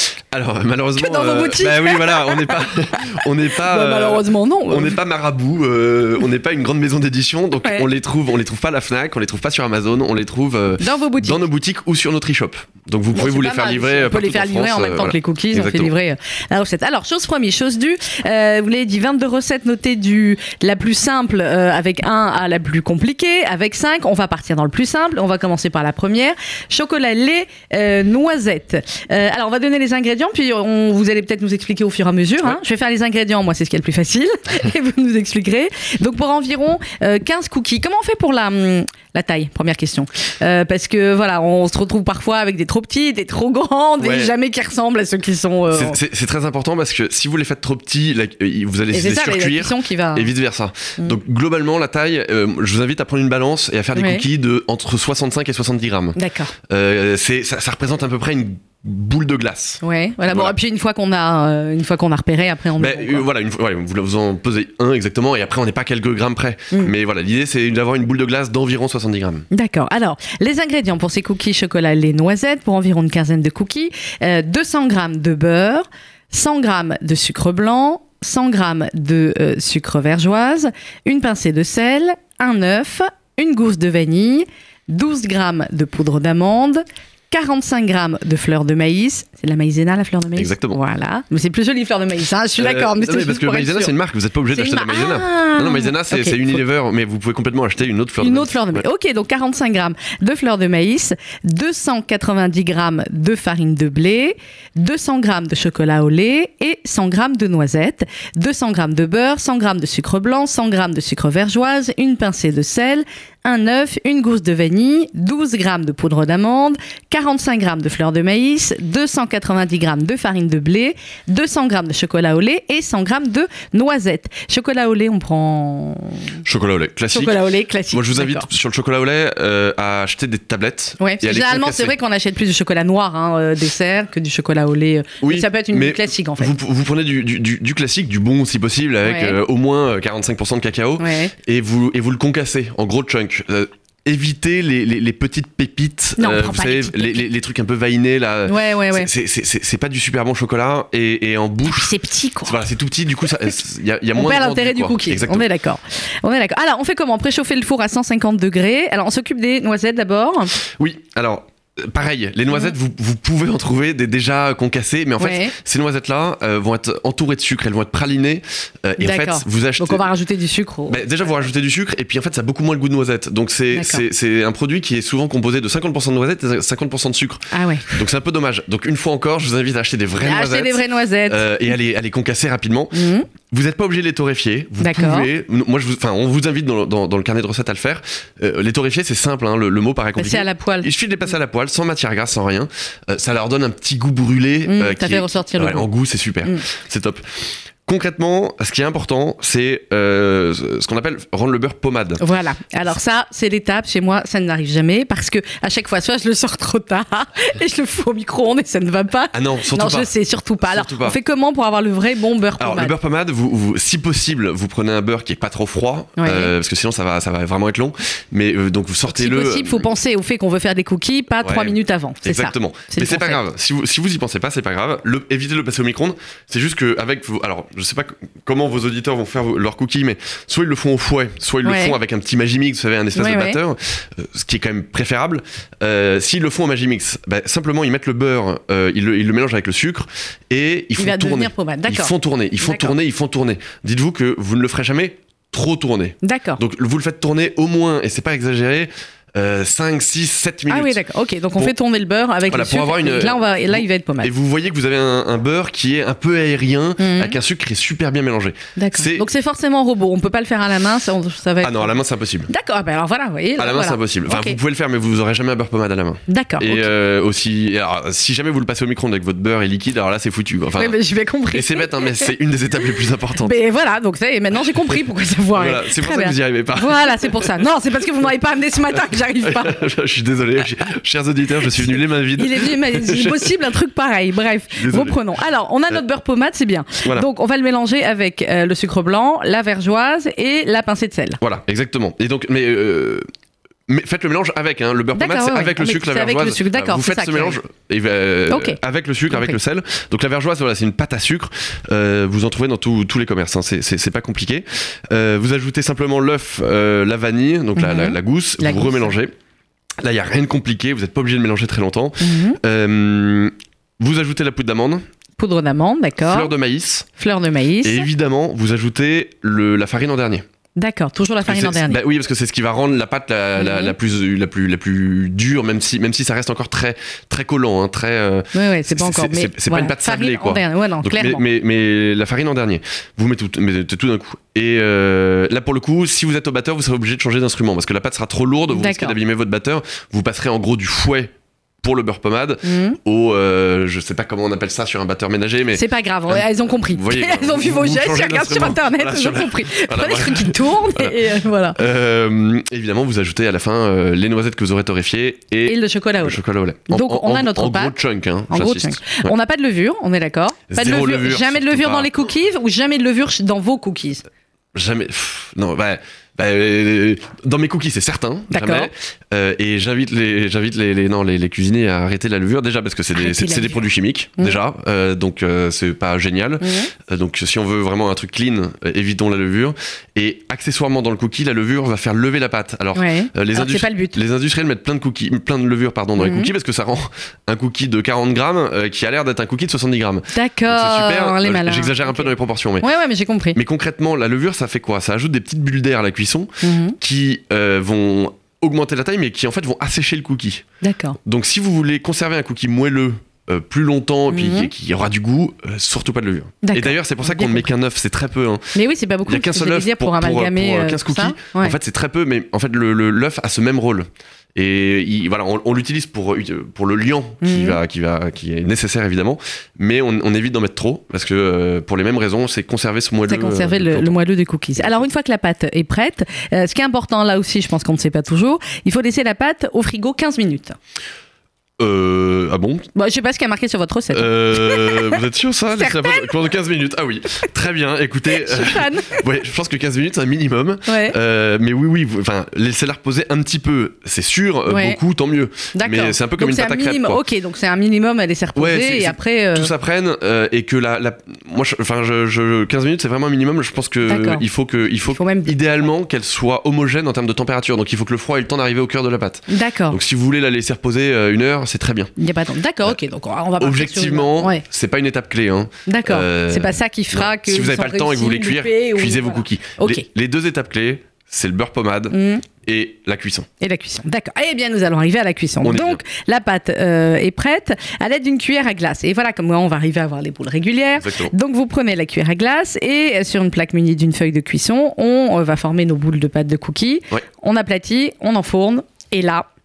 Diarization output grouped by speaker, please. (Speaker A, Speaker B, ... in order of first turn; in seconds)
Speaker A: 0.3-15.9, 44.0-44.3, 45.7-60.6, 62.8-69.5, 90.4-90.8, 92.6-98.8, 126.5-127.4, 127.9-131.9, 135.2-155.5, 160.6-170.1, 170.9-202.2, 209.3-211.2, 212.6-219.9, 221.4-251.0, 252.5-259.3, 261.6-262.5, 263.6-271.0, 271.5-273.6, 275.5-277.6, 279.4-283.5, 284.8-285.2, 291.4-293.2, 293.9-309.3, 310.0-315.0, 316.3-317.1, 317.8-320.4, 321.4-351.2, 351.8-359.3, 360.7-362.1, 364.7-392.9, 393.6-400.6, 401.2-424.2, 424.8-425.0, 431.8-432.9, 434.1-447.2, 448.6-462.1, 463.6-473.5, 475.6-476.0, 481.0-481.3
Speaker B: 1.0-5.0, 10.8-11.4, 13.1-46.0, 48.9-50.3, 54.0-54.2, 56.1-56.5, 59.8-63.2, 69.5-93.9, 94.5-96.6, 98.2-126.3, 127.1-128.5, 131.0-136.5, 139.0-139.4, 141.0-141.3, 146.2-147.3, 148.5-149.1, 151.6-152.6, 154.1-160.6, 165.2-165.5, 169.0-171.0, 173.7-174.0, 177.5-177.9, 180.2-181.5, 182.9-183.3, 184.8-185.3, 190.2-190.9, 194.7-195.9, 202.2-212.9, 216.2-216.5, 219.1-223.4, 231.6-231.9, 233.1-233.6, 241.0-242.9, 246.2-246.6, 250.7-254.3, 257.0-257.4, 258.8-261.9, 262.5-264.6, 266.3-266.9, 270.8-272.3, 273.4-279.8, 281.8-291.4, 295.1-297.6, 298.5-298.8, 299.3-299.6, 307.8-309.1, 312.2-312.6, 315.4-316.5, 317.2-318.1, 320.8-322.0, 323.6-323.9, 328.5-331.4, 338.7-339.1, 342.6-343.0, 345.7-351.8, 355.6-357.9, 358.5-364.2, 368.5-368.9, 373.1-373.8, 376.6-376.9, 382.9-384.2, 386.2-386.5, 390.3-393.6, 396.6-397.0, 400.8-401.2, 404.3-404.7, 406.6-407.7, 408.8-411.8, 417.4-417.8, 423.3-430.8, 432.9-435.2, 435.8-436.3, 438.3-439.2, 440.9-441.1, 444.7-445.0, 445.7-449.7, 454.1-454.4, 455.1-455.6, 459.5-460.0, 462.2-464.6, 465.9-470.1, 472.1-472.4, 473.6-489.4